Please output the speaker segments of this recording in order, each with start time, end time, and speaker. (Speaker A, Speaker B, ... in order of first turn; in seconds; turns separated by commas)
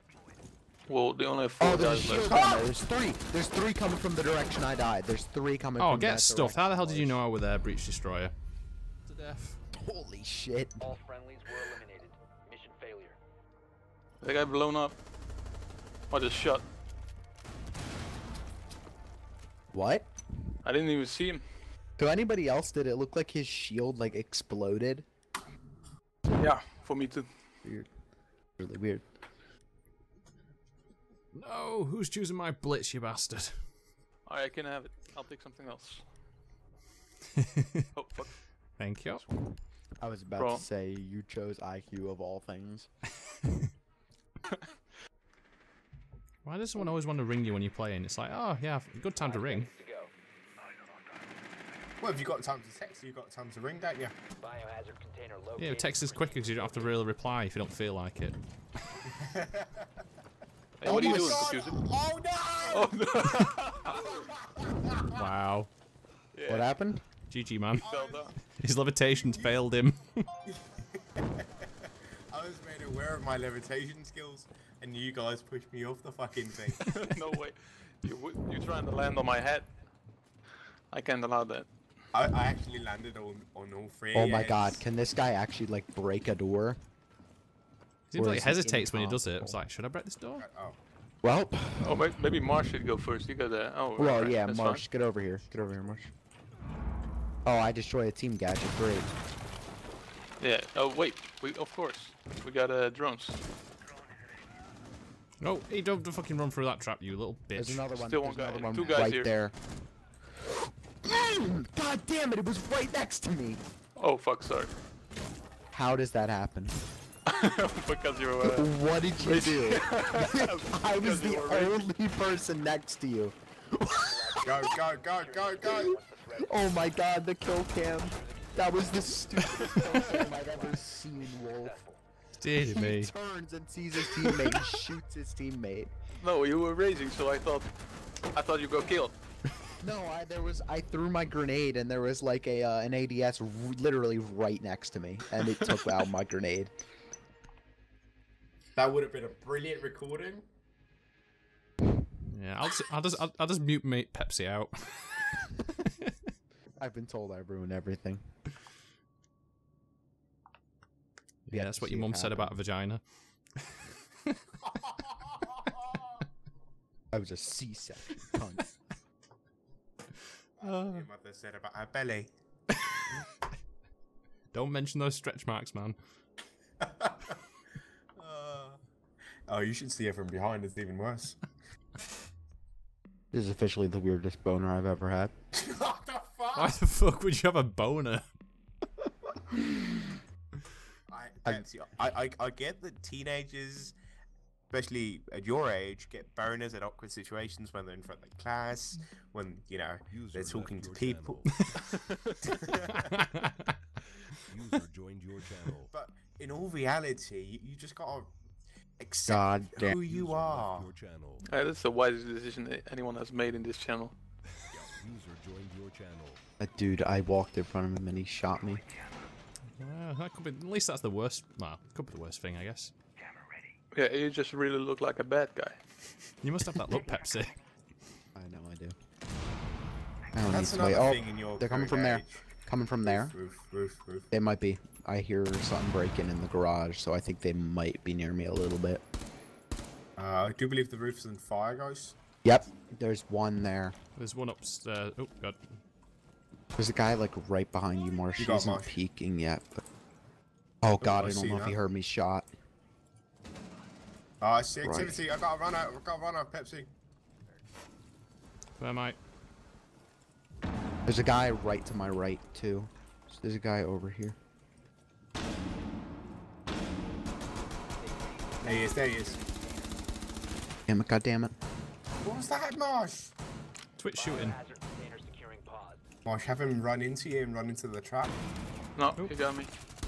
Speaker A: 0.9-2.4, Speaker B: 1.6-7.2, Speaker C: 2.3-2.7, Speaker D: 5.8-8.3, Speaker D: 9.1-9.6, Speaker B: 9.7-10.9, Speaker E: 10.8-13.2, Speaker A: 14.2-15.0, Speaker A: 16.1-16.6, Speaker B: 19.7-20.1, Speaker A: 20.6-21.4, Speaker B: 22.0-25.0, Speaker A: 26.4-27.3, Speaker B: 28.6-29.0, Speaker D: 31.3-33.6, Speaker A: 34.2-36.0, Speaker A: 37.9-38.4, Speaker D: 38.8-39.2, Speaker B: 40.0-42.9, Speaker A: 40.4-40.6, Speaker D: 46.4-49.7, Speaker E: 49.2-50.1, Speaker C: 52.0-54.1, Speaker E: 54.4-57.0, Speaker D: 55.6-58.4, Speaker C: 59.1-59.9, Speaker A: 60.8-61.8, Speaker D: 60.8-61.6, Speaker C: 60.8-62.9, Speaker A: 62.6-64.0, Speaker C: 64.0-65.0, Speaker D: 65.1-65.7, Speaker A: 66.3-66.7, Speaker B: 66.5-67.1, Speaker D: 67.3-67.9, Speaker C: 67.8-68.3, Speaker A: 67.8-68.3, Speaker D: 68.6-70.2, Speaker C: 69.1-69.6, Speaker C: 70.5-76.8, Speaker A: 76.8-79.7, Speaker A: 80.9-81.7, Speaker C: 82.1-84.8, Speaker B: 84.1-86.8, Speaker D: 88.1-90.4, Speaker B: 88.2-89.6, Speaker C: 90.4-90.8, Speaker B: 91.2-92.0, Speaker A: 91.8-94.8, Speaker B: 94.0-96.1, Speaker B: 97.4-99.1, Speaker A: 100.4-103.4, Speaker D: 105.4-107.9, Speaker B: 107.5-109.5, Speaker A: 108.0-109.3, Speaker B: 111.0-113.6, Speaker A: 114.0-114.7, Speaker B: 115.7-116.8, Speaker A: 117.2-121.8, Speaker B: 118.4-124.6, Speaker E: 124.0-126.9, Speaker C: 124.4-126.0, Speaker B: 125.9-131.8, Speaker E: 128.0-132.0, Speaker D: 132.4-133.1, Speaker B: 132.6-135.9, Speaker A: 136.1-137.7, Speaker A: 138.3-139.1, Speaker B: 139.8-146.7, Speaker C: 148.8-150.4, Speaker D: 152.3-156.1, Speaker B: 156.8-158.2, Speaker D: 161.4-163.0, Speaker B: 161.5-162.5, Speaker C: 165.2-165.9, Speaker B: 167.1-168.8, Speaker D: 170.6-171.1, Speaker C: 170.6-172.3, Speaker D: 174.5-176.0, Speaker C: 176.8-177.4, Speaker C: 178.2-178.8, Speaker C: 179.5-181.4, Speaker B: 183.3-185.3, Speaker C: 185.5-186.8, Speaker D: 186.5-188.2, Speaker C: 191.1-194.0, Speaker C: 194.7-201.4, Speaker F: 200.1-201.8, Speaker C: 202.4-203.0, Speaker D: 202.9-203.7, Speaker F: 204.5-205.9, Speaker C: 205.9-208.3, Speaker C: 209.0-210.9, Speaker B: 209.2-210.0, Speaker F: 209.9-211.4, Speaker A: 211.4-214.1, Speaker F: 214.8-216.4, Speaker B: 216.6-218.8, Speaker D: 219.8-222.9, Speaker A: 223.9-225.8, Speaker D: 226.4-227.6, Speaker B: 228.3-228.9, Speaker B: 230.3-233.3, Speaker C: 230.5-232.5, Speaker C: 233.0-234.3, Speaker B: 234.3-239.0, Speaker C: 240.2-242.2, Speaker B: 242.4-243.9, Speaker D: 244.2-245.8, Speaker B: 246.8-249.8, Speaker C: 248.3-249.0, Speaker B: 250.8-252.5, Speaker C: 251.0-251.8, Speaker C: 254.4-256.9, Speaker B: 254.8-255.2, Speaker D: 258.8-259.2, Speaker B: 261.1-264.4, Speaker E: 267.9-269.9, Speaker C: 268.6-269.4, Speaker B: 270.9-271.5, Speaker C: 272.2-273.4, Speaker D: 274.0-274.6, Speaker E: 274.2-276.0, Speaker C: 276.2-278.4, Speaker A: 278.9-279.7